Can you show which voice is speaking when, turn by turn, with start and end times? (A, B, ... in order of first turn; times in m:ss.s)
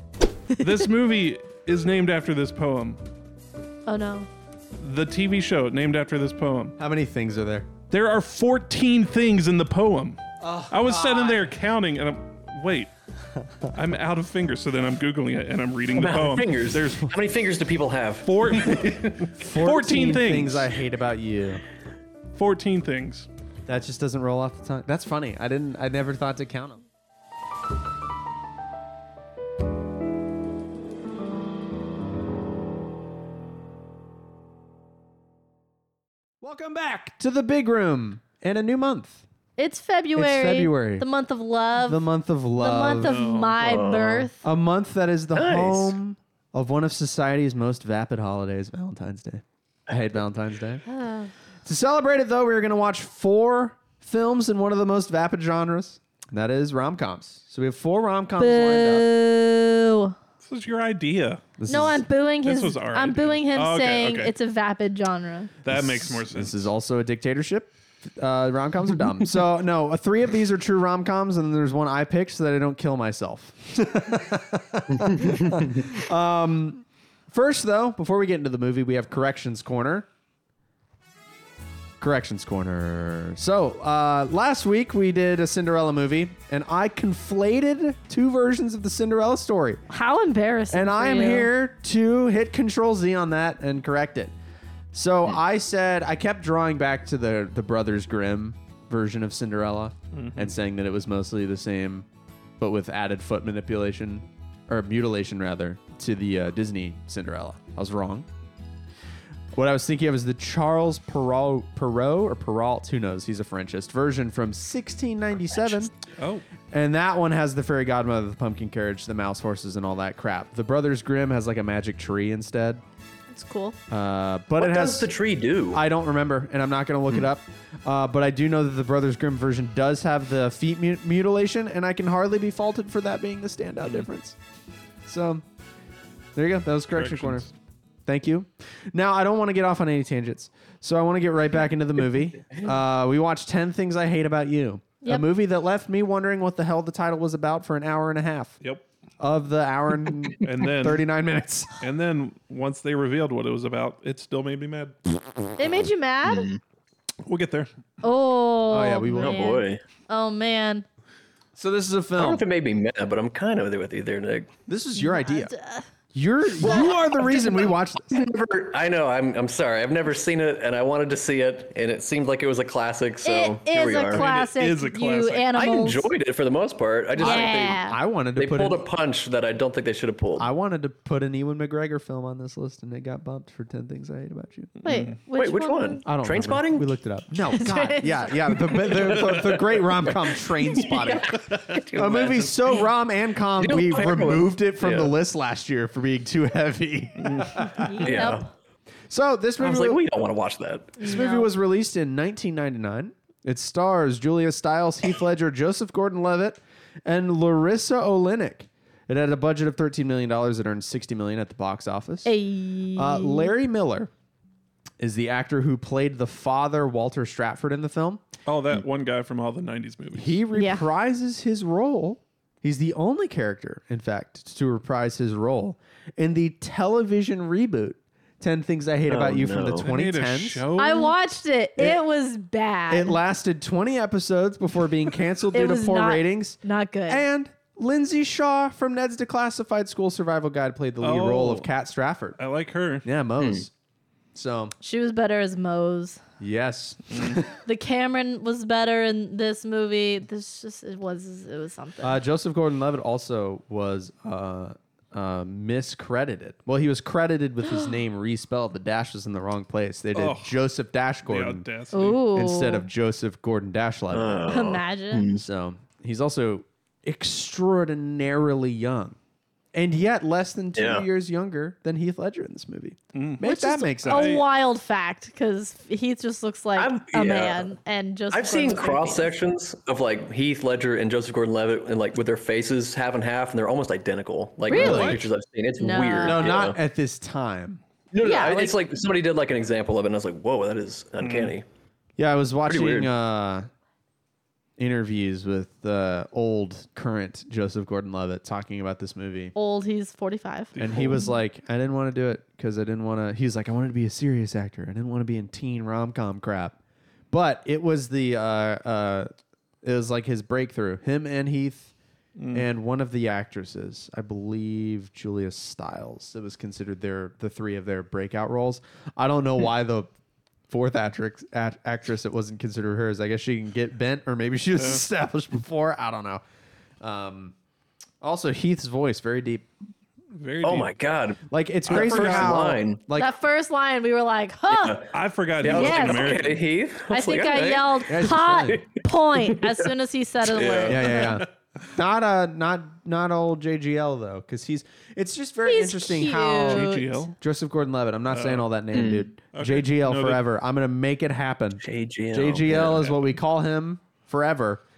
0:00.6-0:03.0 A
0:03.9-0:04.3 B
0:04.8-0:06.8 A
0:06.8-0:07.7 C
0:07.9-0:12.9 A
0:10.4-0:11.4 C
0:13.7-0:17.1 A
0:15.9-0:19.0 D
0:18.2-0:20.7 A
0:19.3-0:21.6 C
0:22.3-0:23.3 A
0:23.7-0:26.8 C
0:36.4-0:39.2 C
0:39.6-0:42.0 B
0:40.2-0:41.0 C
0:41.8-0:43.2 C
0:42.6-0:44.4 B
0:43.0-0:43.8 A
0:43.6-0:44.3 D
0:44.4-0:50.8 C
0:45.3-0:46.0 D
0:50.9-0:51.3 B
0:51.6-0:59.1 C
0:58.4-1:00.2 B
1:00.4-1:01.4 A
1:01.6-1:02.0 C
1:01.7-1:05.5 B
1:02.4-1:04.3 A
1:04.0-1:04.3 C
1:05.6-1:06.6 A
1:05.7-1:20.1 C
1:15.1-1:15.7 D
1:22.0-1:29.8 C
1:29.9-1:31.5 B
1:30.7-1:34.3 C
1:34.9-1:42.1 C
1:40.1-1:40.5 A
1:42.6-1:48.3 C
1:49.5-1:55.9 C
1:56.2-1:56.4 A
1:56.7-2:02.8 C
2:03.3-2:03.8 B
2:03.9-2:05.1 C
2:04.6-2:05.8 D
2:05.7-2:14.4 C
2:15.0-2:15.4 C
2:16.4-2:17.5 C
2:17.0-2:17.5 A
2:18.1-2:28.6 C
2:29.2-2:31.8 C
2:30.4-2:31.0 A
2:31.8-2:35.0 A
2:35.6-2:36.5 B
2:36.3-2:36.6 D
2:37.2-2:37.7 A
2:38.0-2:40.8 B
2:38.7-2:39.5 C
2:39.2-2:39.8 D
2:41.6-2:42.4 C
2:42.2-2:44.5 D
2:44.7-2:45.5 C
2:45.0-2:45.9 B
2:46.1-2:48.2 C
2:46.6-2:54.2 D
2:53.2-2:56.1 B
2:54.1-2:55.5 A
2:55.5-2:57.8 D
2:57.2-2:58.9 C
2:57.2-2:58.0 B
2:58.4-3:00.5 D
3:00.4-3:04.8 C
3:04.8-3:06.0 B
3:04.9-3:05.2 A
3:05.4-3:06.9 D
3:06.0-3:18.3 C
3:07.5-3:08.7 B
3:08.8-3:12.9 D
3:13.6-3:15.1 D
3:17.2-3:17.6 A
3:17.6-3:18.5 B
3:18.0-3:18.5 D
3:19.1-3:20.0 C
3:19.6-3:21.0 D
3:21.0-3:21.5 B
3:21.0-3:32.3 C
3:32.2-3:33.5 B
3:33.0-3:34.1 C
3:35.0-3:38.2 C
3:38.5-3:40.4 A
3:40.1-3:50.7 C
3:40.5-3:40.9 B
3:49.1-3:49.9 D
3:49.8-3:51.2 A
3:50.8-3:53.2 B
3:52.9-4:02.4 C
3:55.5-3:57.2 B
4:01.0-4:01.7 A
4:02.4-4:03.1 A
4:03.0-4:03.7 C
4:03.4-4:03.6 D
4:04.3-4:04.8 C
4:04.8-4:06.2 B
4:06.4-4:07.5 C
4:07.1-4:07.4 A
4:07.6-4:12.2 B
4:12.0-4:21.6 C
4:17.6-4:17.9 B
4:20.2-4:20.6 A
4:21.3-4:22.2 A
4:21.9-4:22.9 B
4:22.2-4:24.6 C
4:24.1-4:25.4 D
4:24.5-4:25.3 B
4:25.4-4:29.2 C
4:29.7-4:34.4 C
4:30.8-4:31.0 D
4:33.1-4:34.4 A
4:33.4-4:39.3 B
4:36.8-4:37.7 D
4:38.3-4:46.8 D
4:44.7-4:45.3 B
4:44.7-4:45.3 C
4:45.8-4:46.4 B
4:46.2-4:47.8 C
4:48.1-4:51.6 D
4:48.2-4:48.7 B
4:51.2-4:51.6 A
4:52.2-4:53.7 C
4:52.7-4:53.1 D
4:54.8-4:59.5 C
4:59.6-5:00.7 B
5:00.7-5:01.3 A
5:00.8-5:06.8 C
5:07.3-5:09.3 C
5:09.8-5:11.9 C
5:12.4-5:12.7 A
5:12.5-5:20.1 C
5:20.7-5:26.4 C
5:24.8-5:25.0 A
5:27.0-5:27.5 C
5:28.2-5:29.7 C
5:30.3-5:30.9 A
5:30.6-5:33.0 D
5:31.5-5:33.4 C
5:31.9-5:32.6 A
5:33.2-5:35.0 B
5:34.7-5:39.9 D
5:35.1-5:36.6 A
5:35.6-5:36.4 B
5:37.1-5:41.4 B
5:38.1-5:38.8 C
5:40.4-5:41.2 D
5:40.9-5:54.8 C
5:45.7-5:47.3 B
5:46.7-5:47.3 A
5:48.3-5:48.6 A
5:48.9-5:49.3 D
5:49.5-5:50.4 A
5:51.8-5:53.1 D